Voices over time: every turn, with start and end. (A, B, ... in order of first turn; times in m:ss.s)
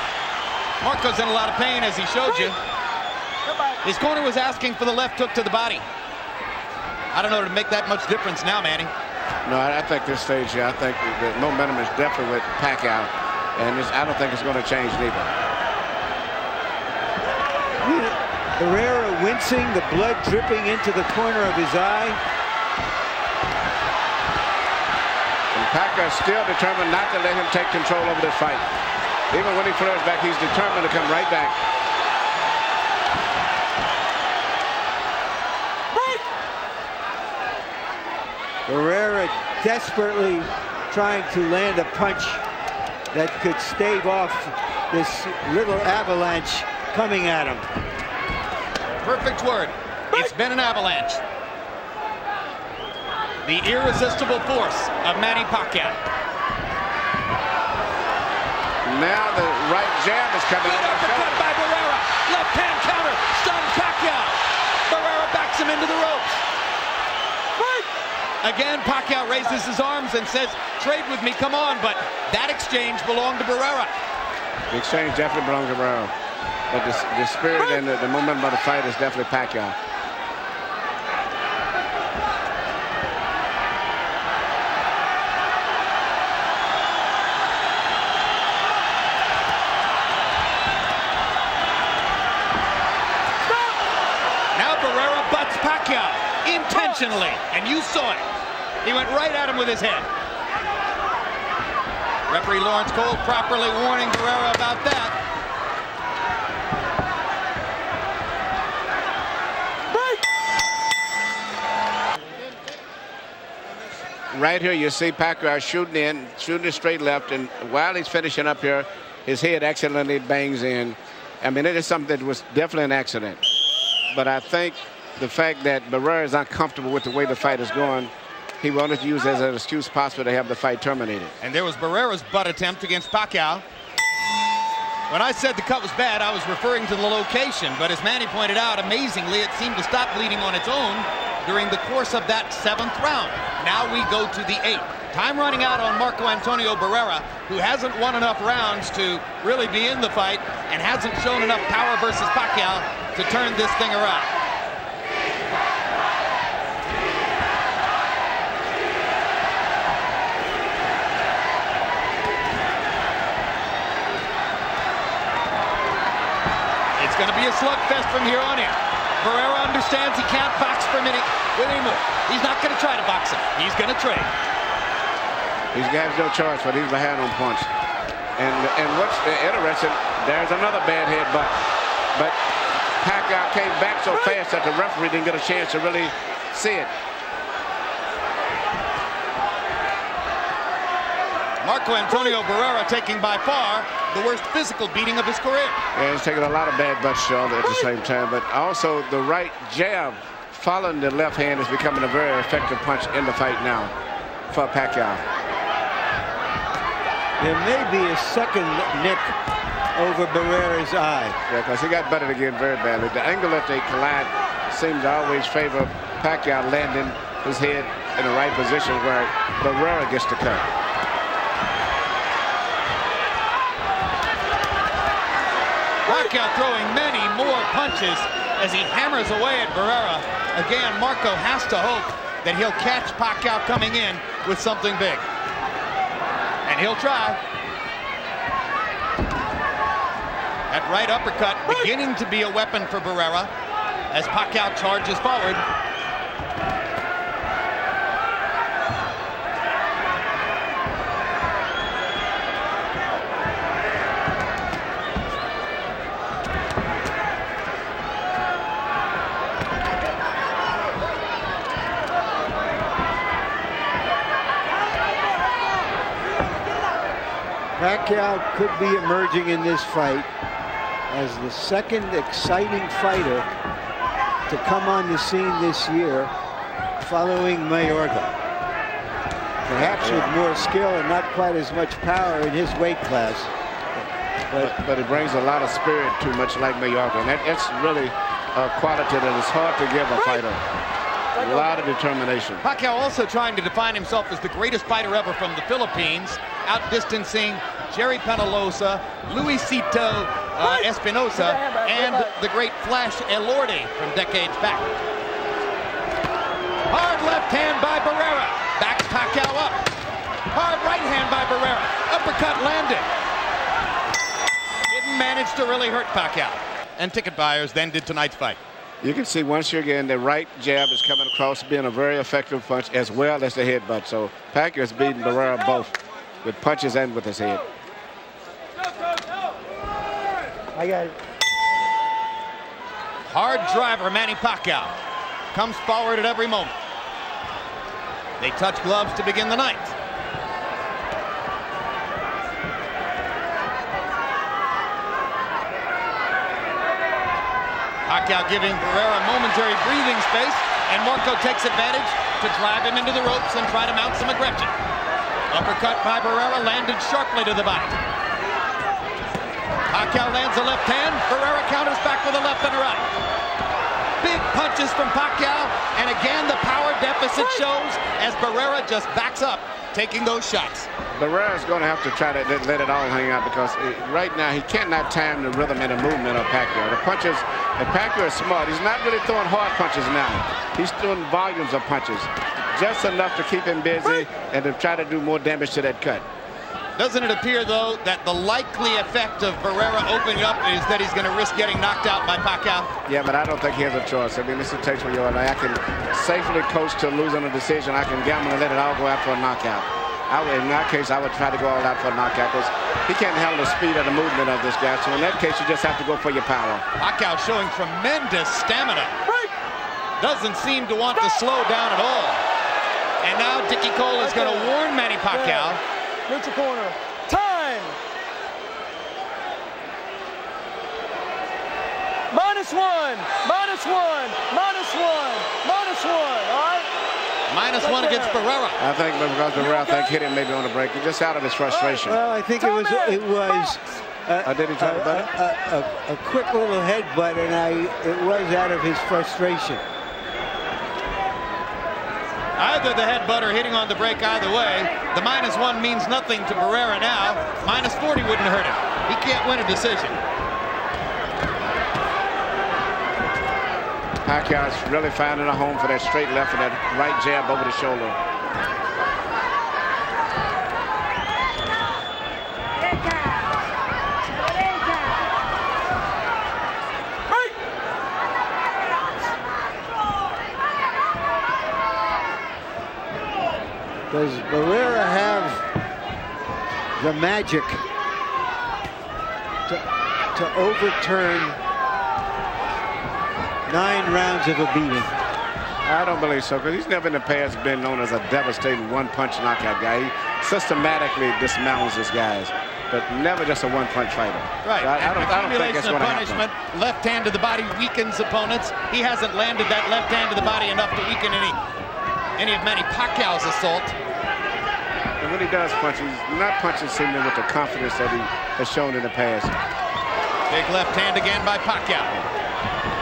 0:00.8-0:02.6 A
0:02.3-0:02.5 B
0:03.4-0:03.8 B
0:03.8-0:05.8 A
0:07.1-0:08.9 A
0:09.4-0:15.4 C
0:17.8-0:22.2 D
0:25.5-0:28.7 C
0:29.3-0:31.6 C
0:35.9-0:36.2 B
0:38.7-0:42.4 D
0:43.1-0:47.6 D
0:49.0-0:51.2 A
0:53.4-0:56.0 A
0:58.8-1:01.4 C
1:00.6-1:06.4 A
1:07.6-1:07.9 B
1:08.4-1:13.9 A
1:14.7-1:16.1 C
1:16.7-1:19.8 C
1:33.4-1:33.8 B
1:34.5-1:38.2 A
1:36.7-1:37.1 B
1:38.8-1:40.1 A
1:42.3-1:45.1 A
1:49.9-1:50.2 B
1:54.3-2:03.4 C
2:04.1-2:11.3 C
2:11.4-2:13.6 A
2:15.1-2:34.3 A
2:47.0-2:54.3 A
2:55.7-2:57.7 C
2:58.4-3:01.6 C
3:03.0-3:06.9 C
3:11.6-3:15.8 A
3:15.9-3:23.9 C
3:24.5-3:25.2 C
3:27.4-3:29.3 D
3:29.9-3:31.4 D
3:31.5-3:40.7 C
3:46.0-3:55.2 A
3:56.6-3:57.4 A
4:00.7-4:03.5 A
4:04.1-4:05.6 A
4:27.8-4:30.3 D
4:31.1-4:33.5 D
4:34.5-4:36.3 D
4:37.0-4:38.3 D
4:39.7-4:40.7 C
4:39.7-4:43.5 D
4:44.6-4:50.6 C
4:51.4-4:51.8 B
4:51.4-4:52.6 C
4:52.6-5:04.9 A
5:00.6-5:02.3 B
5:06.9-5:09.8 A
5:10.5-5:13.1 A
5:14.9-5:18.6 A
5:19.0-5:27.6 C
5:30.8-5:31.1 D
5:33.3-5:34.9 A
5:35.5-5:36.7 A
5:38.4-5:39.9 A
5:48.0-5:54.7 A
5:55.5-5:58.0 A
5:59.9-6:03.1 A
6:04.2-6:10.9 A
6:11.2-6:26.2 C
6:27.0-6:32.9 A
6:33.1-6:46.8 C
6:47.0-6:49.2 A
6:49.2-6:49.5 B
6:50.2-6:52.4 A
6:53.2-6:55.8 A
6:54.2-6:54.7 B
6:55.3-6:58.0 B
7:02.3-7:06.9 B
7:07.5-7:08.8 A
7:07.8-7:08.4 B
7:08.8-7:12.2 C
7:09.6-7:10.0 B
7:11.7-7:12.0 B
7:12.0-7:19.8 D
7:12.6-7:13.2 B
7:14.4-7:15.3 C
7:22.6-7:30.2 A
7:34.2-7:38.2 C
7:54.1-7:55.6 D
7:57.0-7:57.8 D
8:00.3-8:01.6 D
8:03.7-8:05.1 D
8:05.8-8:16.4 C
8:14.6-8:21.6 A
8:22.4-8:23.9 A
8:25.2-8:29.6 C
8:30.5-8:32.2 A